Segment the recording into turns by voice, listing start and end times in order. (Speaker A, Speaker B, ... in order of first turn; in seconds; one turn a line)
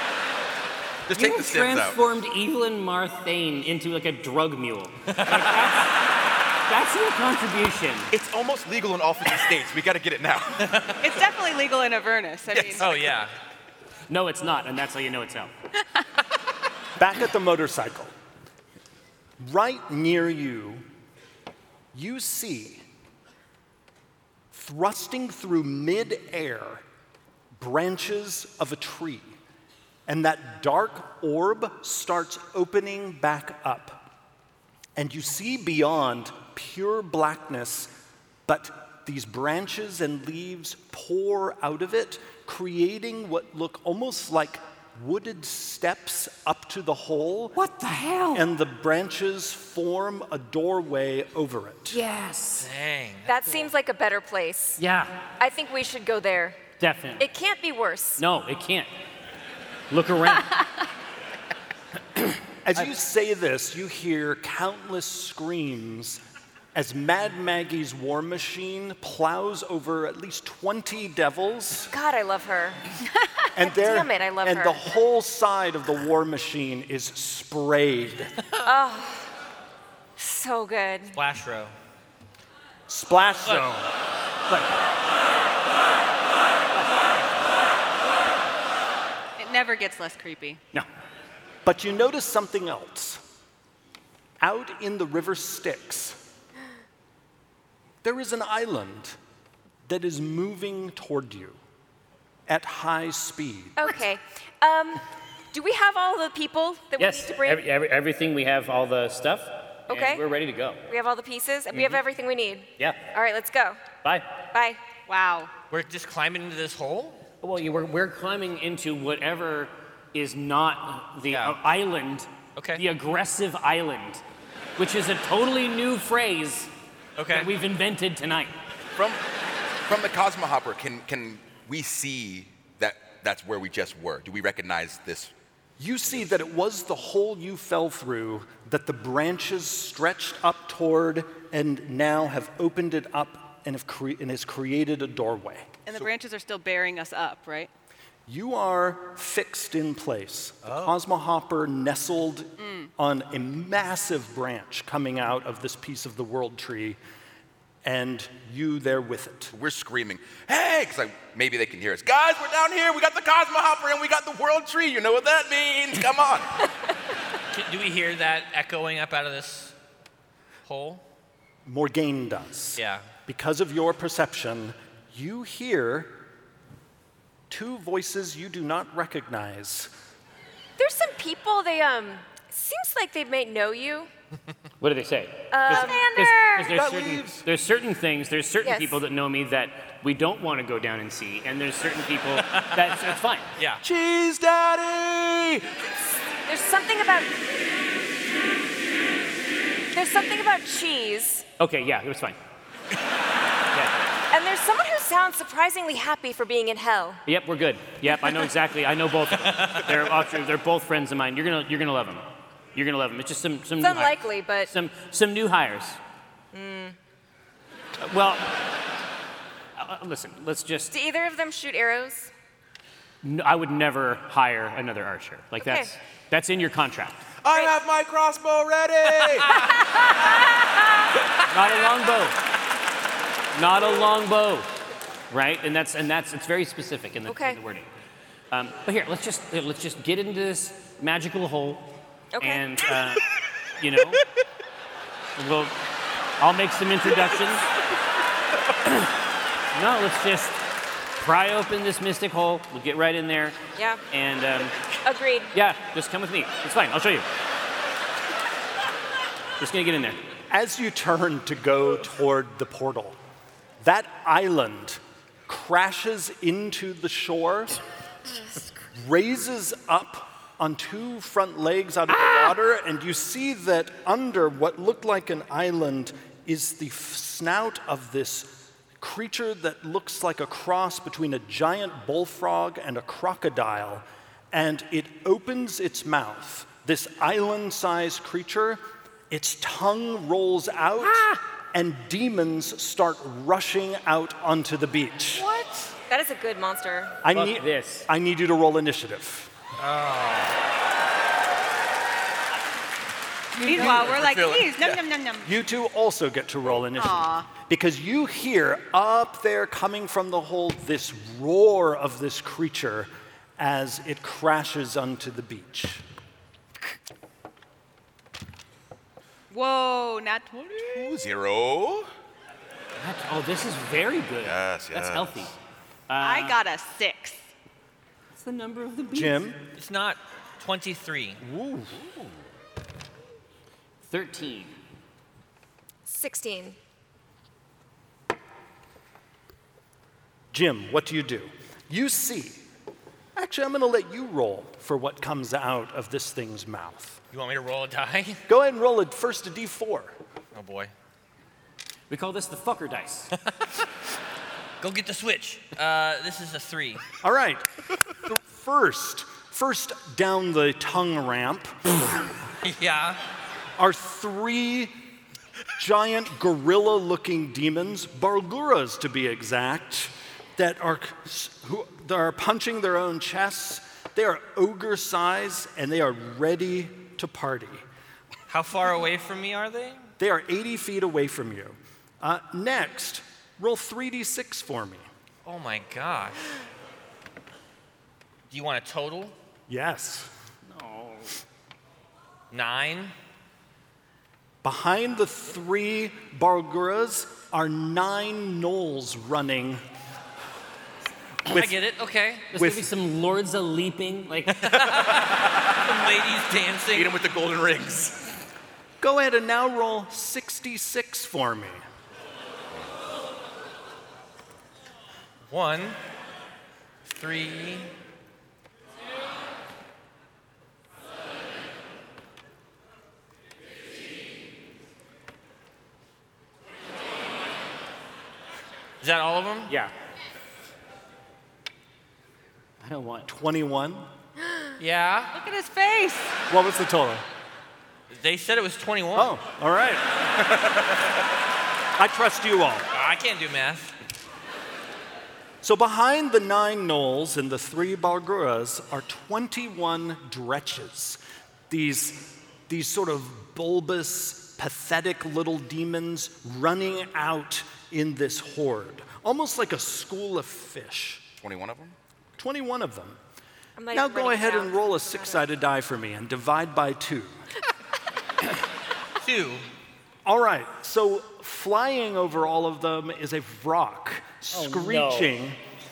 Speaker A: 1.1-2.0
Speaker B: 1.1-6.0
Speaker B: 6.7-8.1
Speaker A: 8.1-10.7
Speaker C: 10.6-11.0
Speaker D: 11.0-12.8
Speaker A: 12.5-13.1
Speaker C: 12.8-13.3
Speaker B: 14.1-15.5
Speaker E: 17.0-18.1
Speaker E: 19.4-20.9
Speaker E: 21.9-22.8
Speaker E: 24.5-26.8
Speaker E: 27.6-29.4
Speaker E: 30.1-34.0
Speaker E: 35.0-37.9
Speaker E: 38.5-47.6
Speaker B: 47.5-48.5
Speaker E: 48.3-52.0
Speaker B: 51.9-52.7
Speaker C: 52.6-53.3
Speaker F: 53.3-54.8
Speaker B: 54.8-55.2
Speaker F: 55.4-56.6
Speaker B: 56.8-57.2
Speaker F: 57.2-58.2
Speaker B: 58.2-58.9
Speaker B: 59.9-60.6
Speaker B: 62.1-62.9
Speaker E: 62.6-66.2
Speaker E: 66.7-71.9
Speaker F: 71.8-72.8
Speaker E: 73.5-78.3
Speaker F: 73.6-74.8
Speaker F: 78.6-79.2
Speaker F: 80.2-81.2
Speaker C: 81.1-81.7
Speaker E: 82.9-83.9
Speaker D: 89.4-90.6
Speaker E: 91.6-93.2
Speaker E: 94.4-96.2
Speaker E: 98.0-99.2
Speaker E: 99.9-101.6
Speaker E: 102.5-103.9
Speaker F: 103.8-107.7
Speaker B: 107.0-110.9
Speaker F: 109.9-110.2
Speaker F: 110.9-113.9
Speaker B: 111.7-112.0
Speaker B: 112.8-113.1
Speaker B: 114.0-114.4
Speaker F: 114.5-114.8
Speaker D: 115.1-115.5
Speaker C: 115.7-117.2
Speaker B: 117.4-124.2
Speaker C: 121.3-121.6
Speaker C: 122.6-122.8
Speaker B: 124.8-126.7
Speaker C: 127.2-127.5
Speaker B: 127.3-128.6
Speaker A: 128.9-129.2
Speaker A: 129.9-135.3
Speaker E: 135.8-145.8
Speaker D: 145.8-147.7
Speaker E: 148.3-157.0
Speaker D: 152.6-152.9
Speaker E: 157.8-159.5
Speaker A: 159.5-166.5
Speaker C: 167.5-169.7
Speaker C: 170.7-171.0
Speaker E: 171.6-176.2
Speaker C: 172.8-173.1
Speaker E: 177.5-179.9
Speaker F: 180.8-184.1
Speaker B: 184.8-193.5
Speaker F: 185.5-186.8
Speaker A: 186.7-187.4
Speaker F: 188.6-189.0
Speaker C: 192.4-193.8
Speaker A: 193.8-195.9
Speaker F: 196.4-197.4
Speaker F: 199.9-201.4
Speaker B: 201.6-202.4
Speaker F: 204.3-207.2
Speaker B: 207.3-216.0
Speaker F: 213.8-214.7
Speaker F: 216.5-216.9
Speaker B: 218.0-218.7
Speaker B: 219.8-220.9
Speaker F: 220.9-222.3
Speaker B: 223.2-227.2
Speaker F: 225.6-225.9
Speaker A: 227.4-229.6
Speaker C: 229.2-229.6
Speaker B: 231.5-232.4
Speaker B: 233.5-234.7
Speaker B: 235.3-237.9
Speaker F: 237.3-237.6
Speaker B: 238.5-243.2
Speaker F: 242.3-242.9
Speaker B: 243.8-244.2
Speaker B: 245.4-245.8
Speaker B: 246.4-247.7
Speaker B: 248.8-249.1
Speaker B: 249.7-250.6
Speaker B: 251.2-253.6
Speaker F: 253.8-254.0
Speaker B: 254.1-254.8
Speaker F: 255.0-255.5
Speaker B: 255.5-257.3
Speaker B: 259.6-260.2
Speaker E: 260.5-263.2
Speaker E: 263.8-267.8
Speaker E: 268.9-295.4
Speaker B: 291.0-291.4
Speaker F: 295.6-297.2
Speaker E: 297.2-299.5
Speaker B: 297.3-298.1
Speaker C: 299.8-300.5
Speaker B: 303.5-304.2
Speaker D: 303.6-305.5
Speaker A: 303.8-305.0
Speaker E: 305.4-316.0
Speaker D: 306.8-307.5
Speaker D: 319.5-321.2
Speaker A: 320.8-322.1
Speaker B: 323.0-325.6
Speaker A: 324.4-325.5
Speaker B: 326.1-326.6
Speaker D: 326.2-327.5
Speaker B: 328.4-329.4
Speaker E: 329.1-329.6
Speaker C: 329.8-331.4
Speaker E: 331.4-332.0
Speaker B: 334.1-334.8
Speaker F: 336.1-336.8
Speaker E: 340.5-342.6
Speaker E: 343.4-347.2
Speaker C: 347.3-348.4
Speaker E: 348.5-350.1
Speaker C: 350.5-350.9
Speaker B: 352.1-353.3
Speaker C: 354.8-357.0
Speaker E: 357.2-361.9
Speaker C: 362.6-363.2
Speaker E: 363.8-364.9
Speaker E: 365.8-377.8
Speaker C: 378.5-380.1
Speaker E: 380.2-385.1
Speaker C: 385.5-386.5
Speaker C: 388.5-389.3
Speaker E: 389.7-390.3
Speaker B: 390.7-391.4
Speaker C: 392.5-393.1
Speaker E: 394.6-399.8
Speaker E: 401.5-401.8
Speaker C: 401.5-402.5
Speaker B: 402.5-404.7
Speaker E: 402.5-402.9
Speaker C: 404.6-407.1
Speaker A: 406.9-408.2
Speaker E: 409.0-411.8
Speaker C: 415.5-416.0
Speaker C: 417.1-417.9
Speaker C: 429.0-429.7
Speaker B: 432.8-433.3
Speaker E: 433.3-434.1
Speaker C: 434.8-435.3
Speaker D: 435.3-436.4
Speaker E: 436.5-437.2
Speaker C: 438.1-439.4
Speaker E: 439.1-440.0
Speaker E: 442.0-442.9
Speaker C: 442.9-443.9
Speaker E: 445.6-461.3
Speaker A: 461.4-462.0
Speaker E: 462.4-463.2
Speaker F: 463.8-465.4
Speaker E: 463.9-467.4
Speaker C: 469.2-469.7
Speaker E: 470.2-475.6
Speaker B: 474.5-475.3